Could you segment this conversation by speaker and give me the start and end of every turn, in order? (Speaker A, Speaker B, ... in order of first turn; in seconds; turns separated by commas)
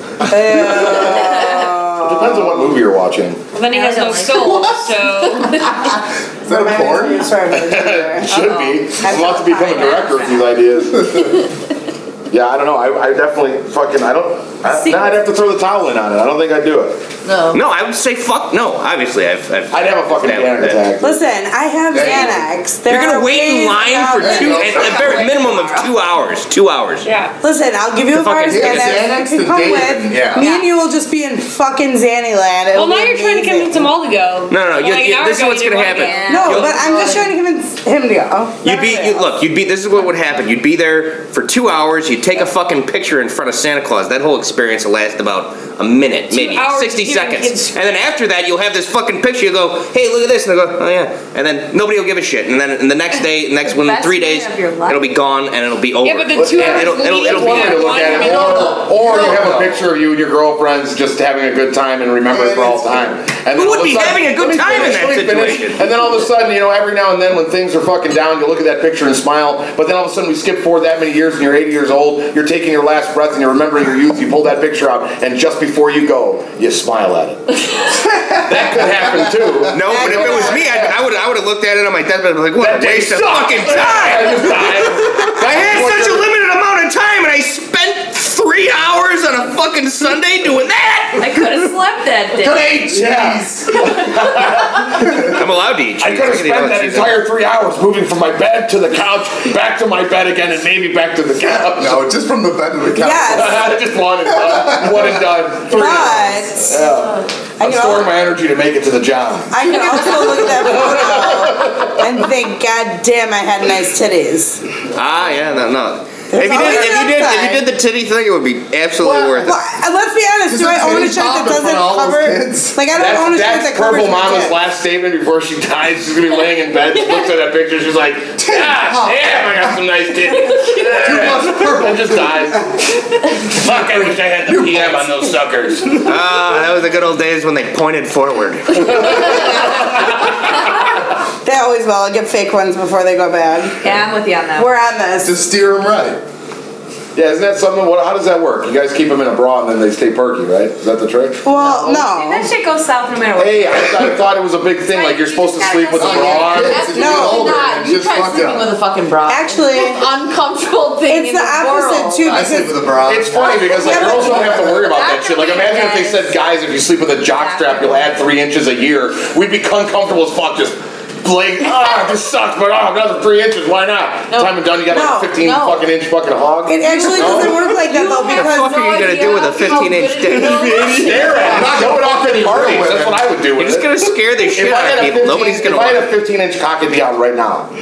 Speaker A: 0.3-2.8, Speaker B: 0.5-3.4, Speaker C: 3.5-5.9, Speaker D: 3.6-4.8, Speaker E: 4.3-7.4, Speaker A: 6.5-8.3, Speaker B: 7.5-11.2, Speaker D: 8.3-10.5, Speaker A: 9.0-10.0, Speaker E: 10.9-11.3, Speaker B: 12.3-17.0, Speaker F: 17.2-17.6, Speaker G: 17.5-20.9, Speaker B: 19.7-21.2, Speaker A: 21.0-24.8, Speaker E: 21.9-22.5, Speaker G: 22.8-27.1, Speaker E: 24.2-25.2, Speaker D: 24.6-25.9, Speaker C: 27.0-27.3, Speaker A: 27.4-33.9, Speaker G: 28.1-29.0, Speaker E: 28.4-30.4, Speaker D: 30.4-30.7, Speaker C: 32.7-37.2, Speaker G: 34.5-36.9, Speaker D: 35.9-37.2, Speaker A: 36.3-39.2, Speaker G: 38.6-58.2, Speaker C: 46.3-47.8, Speaker D: 53.6-55.0, Speaker C: 56.0-58.8, Speaker B: 56.3-77.5, Speaker E: 58.0-59.9, Speaker E: 62.3-63.1, Speaker G: 63.5-65.9, Speaker E: 77.9-79.7, Speaker B: 78.4-81.0, Speaker G: 79.7-91.6, Speaker A: 79.8-80.6, Speaker B: 82.6-86.3, Speaker D: 91.2-92.8, Speaker E: 92.3-94.0, Speaker B: 92.9-95.5, Speaker E: 95.0-95.3, Speaker G: 95.3-97.2, Speaker B: 96.0-102.1, Speaker E: 101.6-105.5, Speaker A: 103.0-103.6, Speaker B: 103.3-112.0, Speaker A: 105.7-106.8, Speaker A: 107.6-108.1, Speaker A: 109.5-114.6, Speaker G: 114.9-119.5, Speaker A: 116.3-117.6, Speaker E: 119.0-119.5, Speaker A: 119.4-124.5, Speaker E: 120.5-122.8, Speaker B: 122.9-132.7, Speaker E: 128.4-129.8, Speaker E: 130.8-132.7, Speaker B: 133.5-136.0, Speaker E: 133.6-135.3, Speaker G: 136.0-139.4, Speaker B: 138.8-140.0, Speaker A: 141.4-143.8, Speaker D: 143.8-144.7, Speaker A: 144.6-145.4, Speaker E: 145.2-146.2, Speaker B: 147.1-151.8, Speaker A: 151.4-152.5, Speaker D: 151.6-154.1, Speaker B: 153.4-156.9, Speaker D: 154.9-156.9, Speaker E: 155.9-158.7, Speaker F: 156.6-162.4, Speaker A: 156.9-157.5, Speaker A: 159.3-160.0, Speaker A: 161.1-162.8, Speaker E: 162.2-164.8, Speaker B: 163.1-177.7, Speaker A: 163.4-164.8, Speaker D: 164.9-166.3, Speaker D: 167.3-168.1, Speaker F: 174.3-174.6, Speaker A: 174.9-175.4, Speaker F: 175.3-175.9, Speaker A: 176.7-178.9, Speaker F: 176.8-181.7, Speaker G: 178.1-181.0, Speaker E: 180.3-183.4, Speaker B: 180.9-187.7, Speaker G: 183.5-186.1